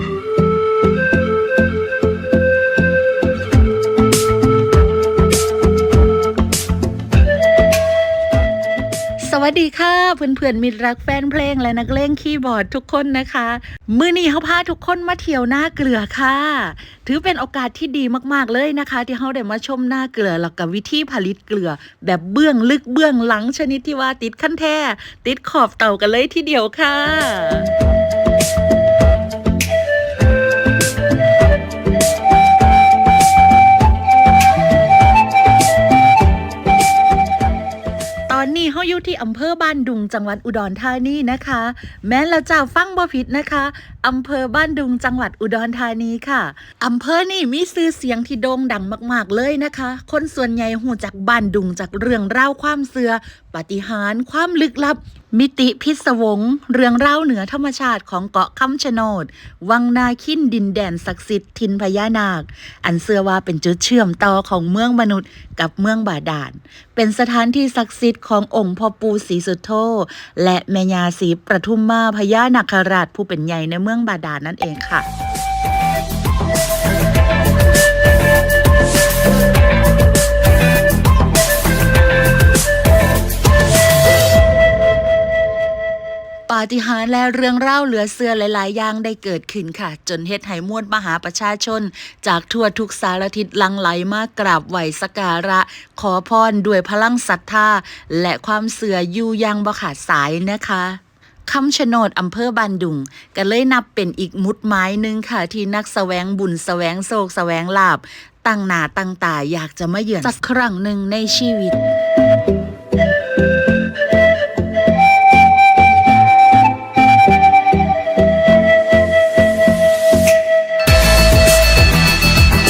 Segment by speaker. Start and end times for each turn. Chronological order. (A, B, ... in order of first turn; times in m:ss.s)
0:09.2-0:27.7 A
0:38.3-1:15.1 A
1:26.5-1:51.8 A